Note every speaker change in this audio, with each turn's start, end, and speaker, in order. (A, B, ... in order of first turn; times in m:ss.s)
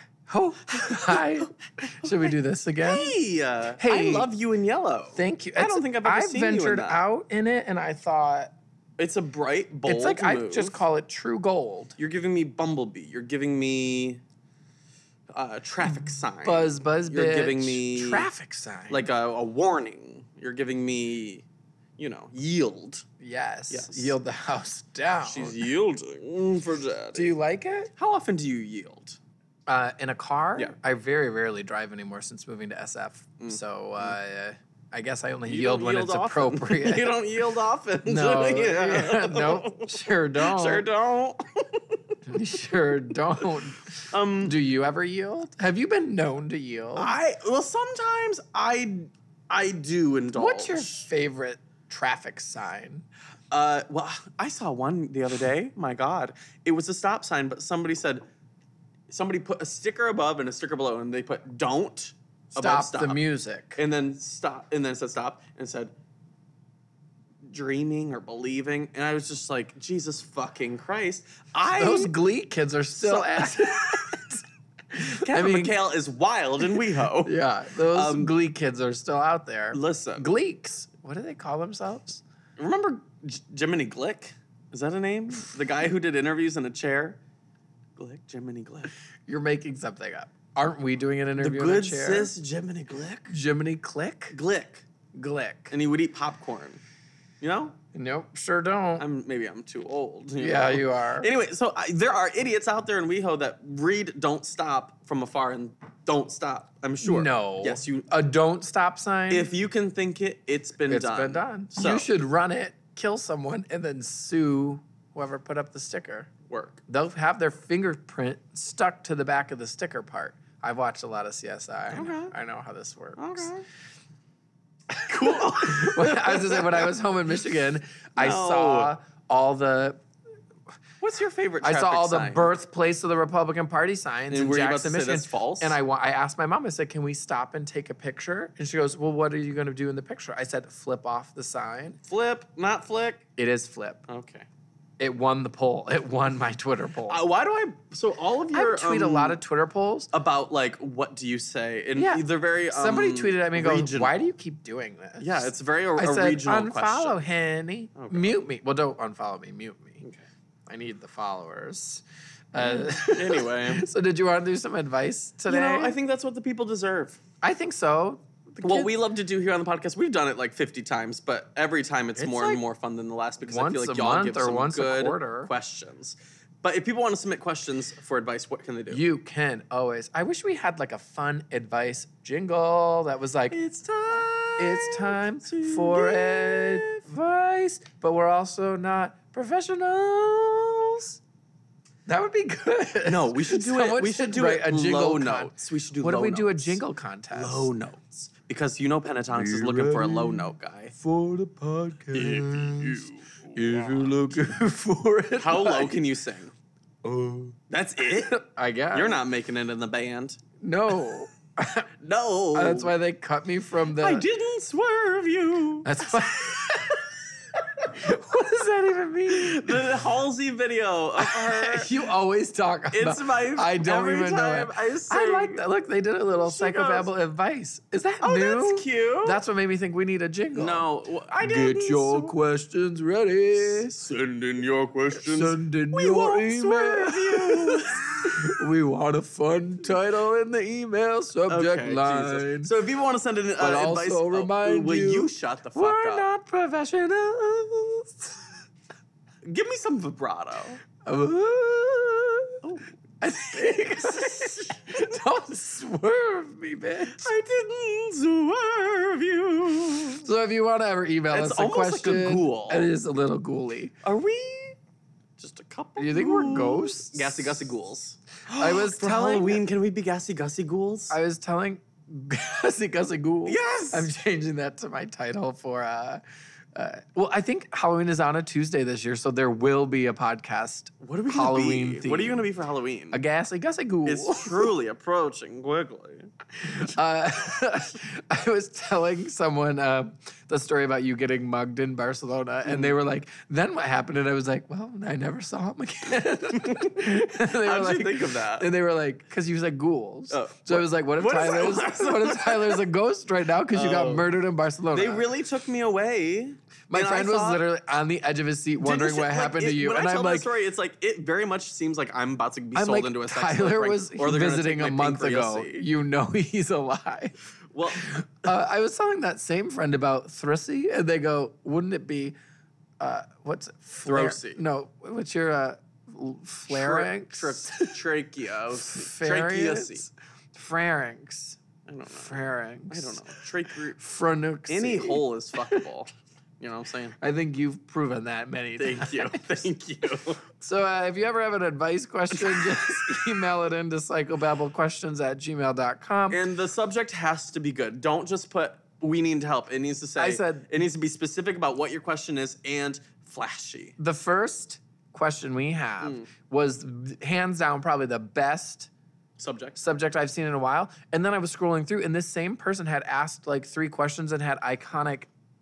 0:00.3-0:03.2 A
0:00.8-0:01.1 B
0:02.8-0:07.0 B
0:03.8-0:04.3 A
0:05.1-0:08.5 A
0:09.0-0:10.7 B
0:09.8-0:11.9 A
0:12.0-0:14.2 B
0:15.3-0:18.3 B
0:16.4-0:19.1 A
0:18.9-0:21.4 B
0:22.0-0:23.0 B
0:23.2-0:25.6 A
0:23.7-0:24.2 B
0:25.2-0:27.3 B
0:27.1-0:27.9 A
0:28.0-0:29.2 B
0:29.7-0:37.2 A
0:33.4-0:34.1 B
0:35.4-0:42.2 B
0:38.0-0:40.8 A
0:42.2-0:47.1 A
0:44.1-0:44.6 B
0:47.0-0:51.1 B
0:50.3-0:53.0 A
0:53.5-0:58.2 B
0:59.1-1:03.2 B
1:02.5-1:03.8 A
1:03.8-1:05.9 B
1:07.4-1:12.2 B
1:11.7-1:15.8 A
1:13.0-1:14.2 B
1:15.0-1:18.4 B
1:16.7-1:22.2 A
1:19.7-1:20.3 B
1:22.6-1:27.2 B
1:28.0-1:28.9 B
1:29.2-1:32.3 A
1:31.4-1:33.3 B
1:33.3-1:34.4 A
1:34.3-1:34.8 B
1:35.1-1:35.7 A
1:35.7-1:36.8 B
1:37.4-1:37.8 B
1:37.9-1:39.0 A
1:39.0-1:48.1 B
1:40.4-1:41.3 A
1:47.0-1:49.5 A
1:49.3-1:52.1 B
1:50.9-1:56.3 A
1:56.5-1:56.8 B
1:56.9-2:03.5 A
2:01.9-2:02.3 B
2:03.2-2:03.7 B
2:04.9-2:10.0 A
2:05.0-2:06.9 B
2:08.2-2:08.9 B
2:11.0-2:12.5 B
2:11.6-2:22.0 A
2:14.3-2:15.8 B
2:22.0-2:23.2 B
2:23.4-2:24.0 A
2:24.1-2:24.5 B
2:25.0-2:27.2 A
2:27.1-2:29.4 B
2:28.5-2:30.1 A
2:30.1-2:34.2 B
2:32.0-2:35.4 A
2:35.2-2:37.2 B
2:36.0-2:40.0 A
2:38.0-2:38.4 B
2:40.7-2:46.0 A
2:42.7-2:43.9 B
2:45.5-2:47.2 B
2:47.4-2:48.9 A
2:48.6-2:59.0 B
2:52.2-2:52.6 A
2:53.4-2:55.5 A
2:58.9-3:03.6 A
3:03.5-3:07.0 B
3:04.1-3:11.2 A
3:12.0-3:17.7 A
3:13.0-3:16.8 B
3:17.3-3:20.9 B
3:19.3-3:26.0 A
3:22.1-3:24.1 B
3:25.4-3:26.5 B
3:27.0-3:29.2 A
3:27.7-3:30.4 B
3:30.6-3:31.9 A
3:32.0-3:32.9 B
3:32.5-3:34.2 A
3:33.9-3:36.7 B
3:35.8-3:40.0 A
3:39.3-3:41.9 B
3:41.2-3:50.9 A
3:42.9-3:45.6 B
3:46.4-3:47.1 B
3:48.2-3:49.4 B
3:50.5-3:52.3 B
3:51.4-3:54.0 A
3:53.7-3:58.5 B
3:55.1-4:02.7 A
4:01.5-4:06.3 B
4:03.6-4:08.5 A
4:09.4-4:10.8 B
4:11.0-4:12.5 A
4:12.6-4:13.0 B
4:13.2-4:17.3 A
4:13.5-4:15.1 B
4:17.0-4:20.2 B
4:20.2-4:23.9 A
4:21.3-4:22.9 B
4:24.0-4:24.8 B
4:25.4-4:31.2 B
4:26.0-4:27.6 A
4:28.5-4:29.6 A
4:31.1-4:36.2 A
4:33.4-4:34.1 B
4:36.7-4:42.5 A
4:41.0-4:43.2 B
4:43.1-4:44.7 A
4:44.0-4:46.3 B
4:46.6-5:05.3 A
4:52.6-4:53.0 B
4:56.6-4:58.7 B
5:00.3-5:02.8 B
5:03.7-5:04.3 B
5:04.9-5:07.6 B
5:06.9-5:10.5 A
5:08.8-5:15.9 B
5:12.7-5:17.3 A
5:17.7-5:18.2 B
5:17.9-5:22.3 A
5:23.0-5:28.0 A
5:24.0-5:24.6 B
5:26.7-5:30.0 B
5:28.8-5:31.6 A
5:31.9-5:32.3 B
5:32.1-5:33.2 A
5:32.9-5:34.0 B
5:33.9-5:35.8 A
5:34.7-5:37.2 B
5:37.2-5:39.6 A
5:38.8-5:40.4 B
5:40.6-5:46.4 A
5:42.3-5:43.1 B
5:46.3-5:53.9 B
5:50.2-5:50.7 A
5:54.0-5:58.9 A
5:56.0-5:56.3 B
5:59.4-5:59.8 B
5:59.8-6:05.3 A